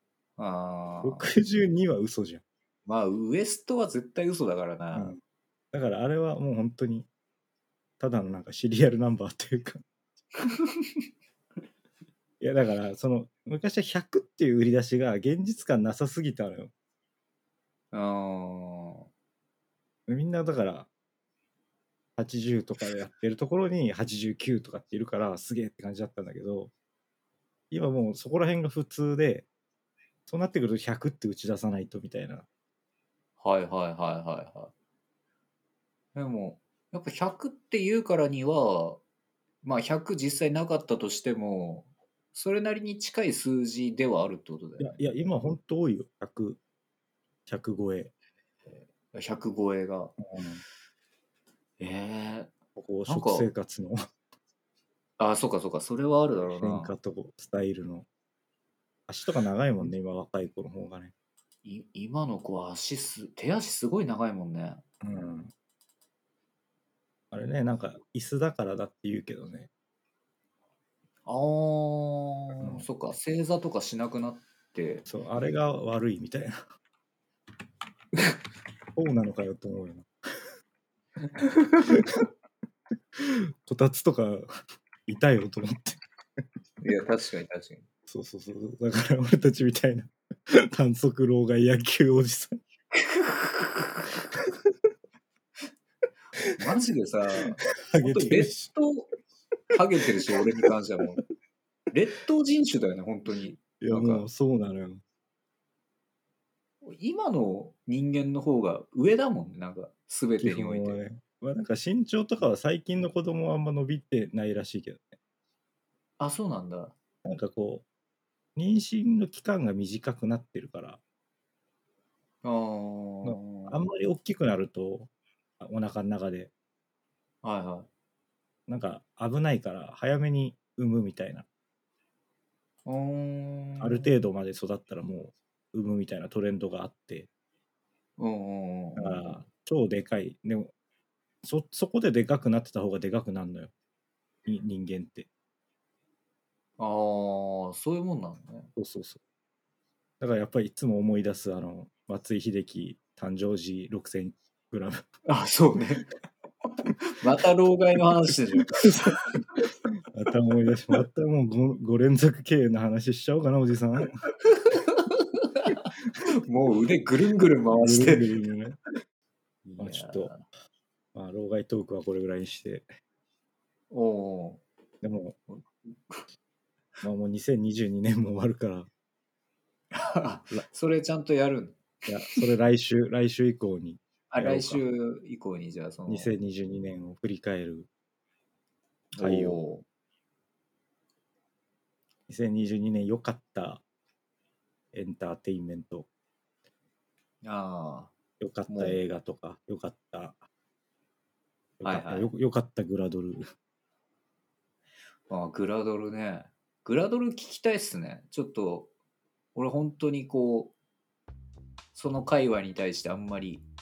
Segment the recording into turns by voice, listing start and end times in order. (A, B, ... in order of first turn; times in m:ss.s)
0:00.4-0:01.3 A
0:01.0-0:02.4 B
0:02.8-0:05.1 A
0:04.9-0:05.2 B
0:05.7-0:07.1 B
0:08.0-0:09.8 B
0:12.4-0:16.7 B
0:17.9-0:19.1 A
0:20.1-0:20.9 B
0:22.2-0:26.7 B
0:27.7-0:29.5 B
0:30.3-0:32.4 B
0:33.4-0:34.7 A
0:36.1-0:39.0 A
0:39.6-0:45.0 A
0:44.8-0:46.6 B
0:47.5-0:48.1 B
0:49.1-0:50.1 A
0:50.2-0:50.6 B
0:51.8-0:52.5 A
0:52.8-0:54.1 B
0:53.1-0:53.5 A
0:55.2-0:56.9 A
0:56.4-0:58.0 B
0:59.1-1:01.1 B
1:01.6-1:04.8 A
1:05.0-1:05.5 B
1:07.3-1:09.7 B
1:11.2-1:15.0 A
1:12.6-1:12.8 B
1:15.0-1:16.6 B
1:19.0-1:20.1 B
1:21.4-1:21.9 A
1:21.8-1:22.2 B
1:23.2-1:24.5 B
1:25.1-1:26.0 B
1:26.8-1:27.8 A
1:28.1-1:32.6 B
1:32.9-1:34.1 A
1:36.6-1:39.1 A
1:37.9-1:38.7 B
1:39.7-1:41.2 A
1:40.3-1:40.7 B
1:41.9-1:44.2 A
1:43.8-1:45.0 B
1:46.8-1:51.0 A
1:50.4-1:55.2 B
1:56.2-1:57.0 A
1:57.2-1:57.8 B
1:58.6-2:01.0 B
2:02.4-2:03.8 A
2:03.2-2:06.5 B
2:07.4-2:07.9 A
2:08.7-2:11.4 B
2:12.8-2:14.1 A
2:13.8-2:17.3 B
2:18.2-2:19.3 A
2:19.0-2:20.7 B
2:21.4-2:23.7 B
2:24.4-2:25.3 B
2:26.8-2:28.7 A
2:28.8-2:29.2 B
2:30.2-2:35.0 B
2:35.2-2:36.1 A
2:37.0-2:39.6 A
2:38.7-2:39.2 B
2:40.1-2:44.1 B
2:44.5-2:48.4 A
2:47.8-2:48.8 B
2:49.6-2:50.4 A
2:49.8-2:50.3 B
2:51.1-2:52.9 B
2:53.9-2:54.6 A
2:55.0-2:55.4 B
2:55.5-2:56.2 A
2:57.0-2:58.9 B
2:59.9-3:02.4 A
3:02.1-3:04.8 B
3:04.3-3:06.3 A
3:06.1-3:07.9 B
3:09.2-3:09.8 A
3:09.2-3:09.6 B
3:12.3-3:13.8 B
3:14.9-3:16.1 B
3:17.4-3:18.1 A
3:18.4-3:20.4 B
3:18.7-3:19.0 A
3:21.8-3:23.4 B
3:21.8-3:22.3 A
3:25.3-3:28.9 A
3:29.5-3:30.7 A
3:31.9-3:33.6 A